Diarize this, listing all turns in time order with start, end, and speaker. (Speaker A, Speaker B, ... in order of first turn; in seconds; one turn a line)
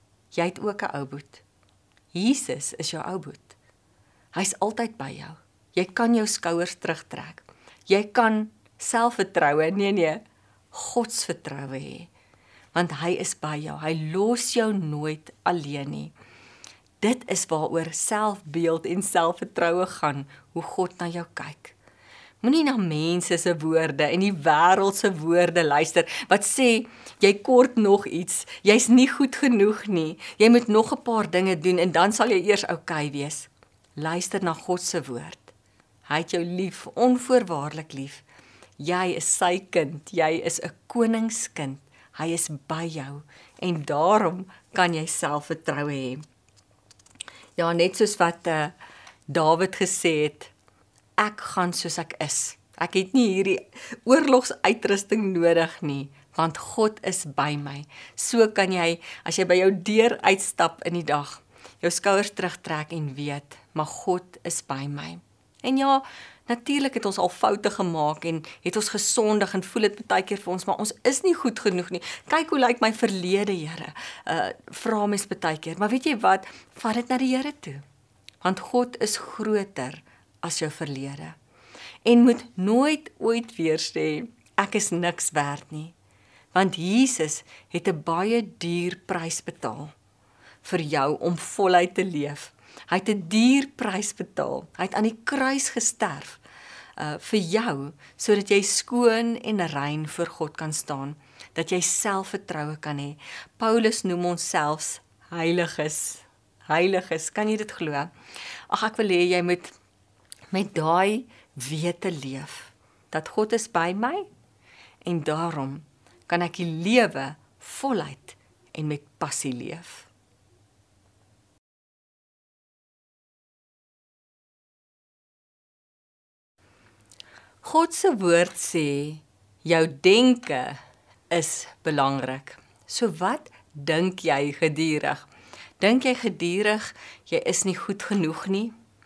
Speaker A: 0.3-1.4
Speaker A: 2.1-3.6
Speaker A: 4.3-12.1
Speaker A: 12.7-16.1
Speaker A: 17.0-21.8
Speaker A: 22.4-35.5
Speaker A: 36.1-38.2
Speaker A: 38.8-46.2
Speaker A: 47.6-48.7
Speaker A: 49.3-50.5
Speaker A: 51.2-77.8
Speaker A: 78.4-81.4
Speaker A: 82.0-86.0
Speaker A: 86.5-89.9
Speaker A: 90.6-96.4
Speaker A: 97.0-108.1
Speaker A: 108.7-109.7
Speaker A: 110.5-114.3
Speaker A: 115.0-120.1
Speaker A: 127.6-130.8
Speaker A: 131.3-135.3
Speaker A: 135.8-138.7